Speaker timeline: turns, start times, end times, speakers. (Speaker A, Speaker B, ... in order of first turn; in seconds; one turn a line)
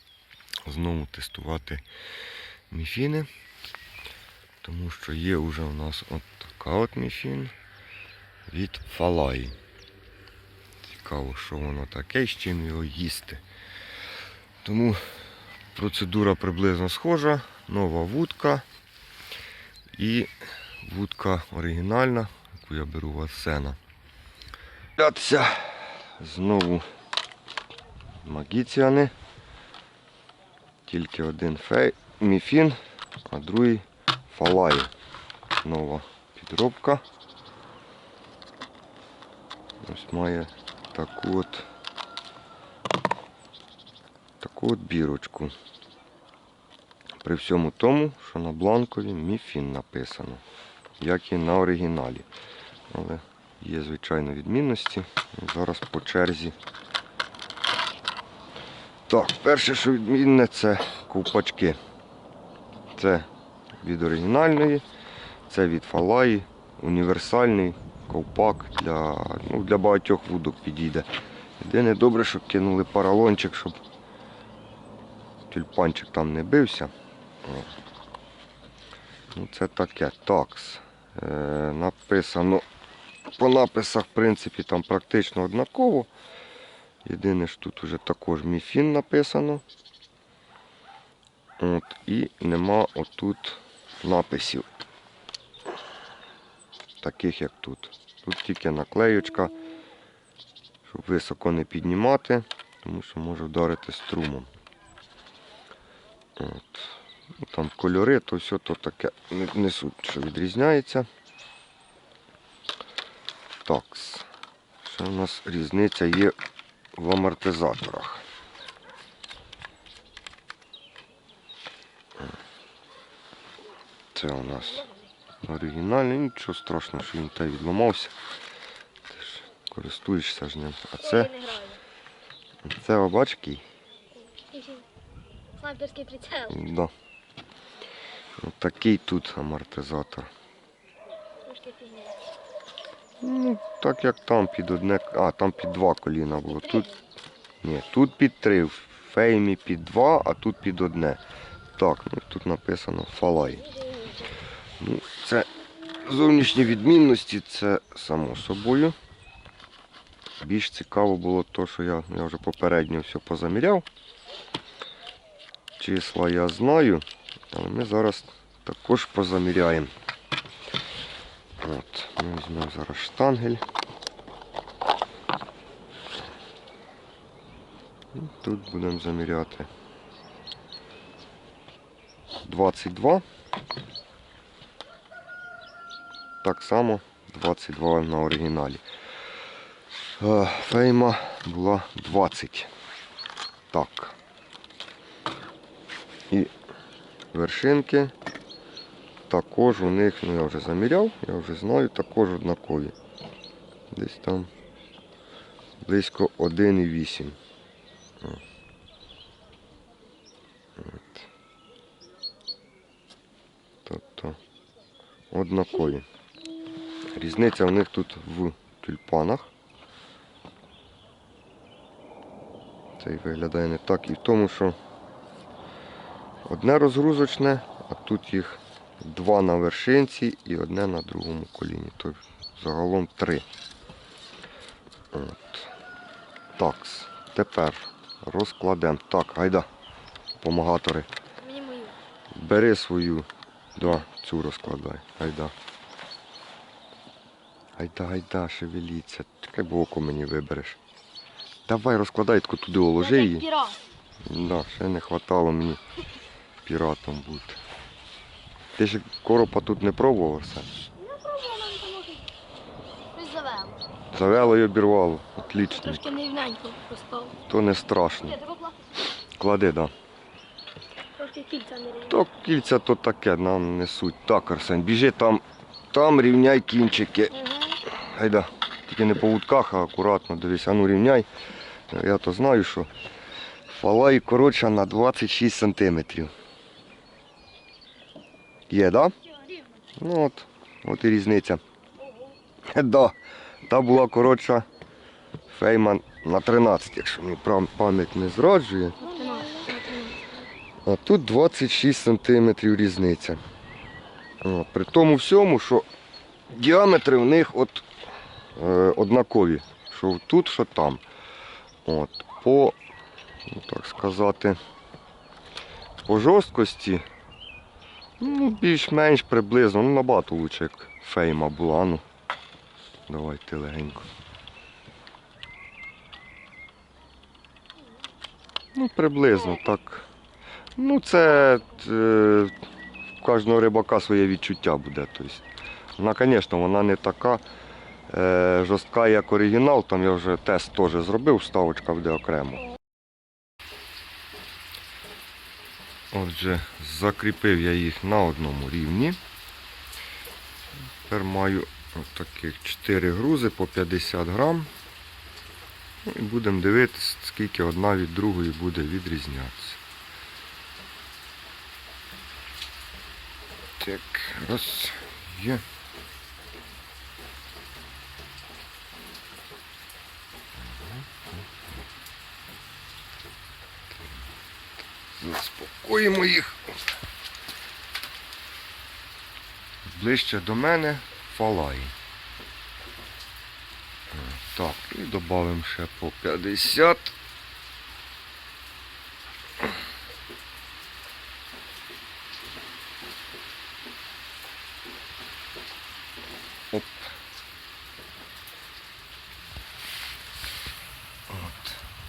Speaker A: 0.7-1.9
Speaker A: 2.7-3.3
Speaker A: 4.6-7.5
Speaker A: 8.5-9.6
Speaker A: 10.8-13.4
Speaker A: 14.6-15.0
Speaker A: 15.8-18.6
Speaker A: 19.9-20.3
Speaker A: 20.8-23.8
Speaker A: 25.0-26.9
Speaker A: 28.2-29.1
Speaker A: 30.9-32.8
Speaker A: 33.3-34.9
Speaker A: 35.6-37.0
Speaker A: 39.9-41.7
Speaker A: 44.4-45.5
Speaker A: 47.2-50.4
Speaker A: 51.0-52.3
Speaker A: 52.9-56.6
Speaker A: 59.1-61.8
Speaker A: 63.0-63.3
Speaker A: 63.8-64.8
Speaker A: 65.5-71.1
Speaker A: 71.6-73.8
Speaker A: 75.5-76.9
Speaker A: 77.5-77.7
Speaker A: 79.3-82.7
Speaker A: 83.4-86.1
Speaker A: 87.0-89.6
Speaker A: 91.6-94.7
Speaker A: 97.0-99.5
Speaker A: 100.8-104.5
Speaker A: 106.4-111.1
Speaker A: 113.7-114.3
Speaker A: 114.8-116.3
Speaker A: 117.0-118.2
Speaker A: 124.2-124.9
Speaker A: 125.4-128.2
Speaker A: 129.1-131.3
Speaker B: 131.0-131.8
Speaker A: 132.6-133.6
Speaker B: 134.3-134.8
Speaker B: 135.6-136.6
Speaker A: 136.5-136.9
Speaker A: 138.4-140.3
Speaker B: 141.5-142.2
Speaker A: 143.2-146.9
Speaker B: 146.5-146.9
Speaker A: 147.6-151.2
Speaker A: 151.8-153.7
Speaker A: 154.8-155.5
Speaker A: 156.0-159.0
Speaker A: 160.4-163.9
Speaker A: 165.8-169.9
Speaker A: 171.6-173.6
Speaker A: 178.1-179.7
Speaker A: 182.4-183.2
Speaker A: 186.4-188.8
Speaker A: 190.2-192.7
Speaker A: 193.7-194.2
Speaker A: 197.3-198.1
Speaker A: 199.3-202.9
Speaker A: 203.9-204.5
Speaker A: 205.8-207.4
Speaker A: 210.8-211.2
Speaker A: 213.9-214.4
Speaker A: 215.3-216.1
Speaker A: 217.2-219.5
Speaker A: 223.0-224.8
Speaker A: 226.5-233.5
Speaker A: 235.1-235.7
Speaker A: 236.6-239.7
Speaker A: 240.4-241.1
Speaker B: 241.4-242.0
Speaker A: 242.3-245.5
Speaker A: 247.8-250.8
Speaker A: 251.7-253.5
Speaker B: 253.0-253.8
Speaker A: 254.3-255.8
Speaker A: 256.6-257.6
Speaker A: 258.8-260.7
Speaker B: 261.0-262.2
Speaker B: 263.1-263.8
Speaker A: 264.1-266.1
Speaker B: 265.7-267.4
Speaker A: 267.5-268.4
Speaker B: 268.3-268.7
Speaker A: 269.4-269.9
Speaker B: 271.2-272.2
Speaker A: 272.1-277.4
Speaker B: 277.4-277.8
Speaker A: 278.0-281.3
Speaker A: 281.9-282.9
Speaker A: 283.7-286.3
Speaker A: 288.7-289.1
Speaker A: 290.0-291.6
Speaker A: 292.7-294.7
Speaker A: 295.5-299.0
Speaker B: 299.0-300.3
Speaker A: 300.9-303.4
Speaker A: 304.4-305.9
Speaker A: 306.5-307.9
Speaker A: 308.6-311.0
Speaker A: 311.9-312.8
Speaker A: 313.5-314.6
Speaker A: 316.0-317.0
Speaker A: 318.2-322.0
Speaker A: 323.1-324.1
Speaker A: 328.8-330.1
Speaker A: 330.8-332.5
Speaker A: 333.2-335.4
Speaker A: 336.0-337.4
Speaker A: 338.1-342.7
Speaker A: 346.1-349.2
Speaker A: 351.0-354.7
Speaker A: 356.1-359.8
Speaker A: 363.8-365.6
Speaker A: 370.6-371.3
Speaker A: 375.1-376.8
Speaker A: 379.9-381.9
Speaker A: 384.1-387.1
Speaker A: 396.7-397.1
Speaker A: 401.3-401.9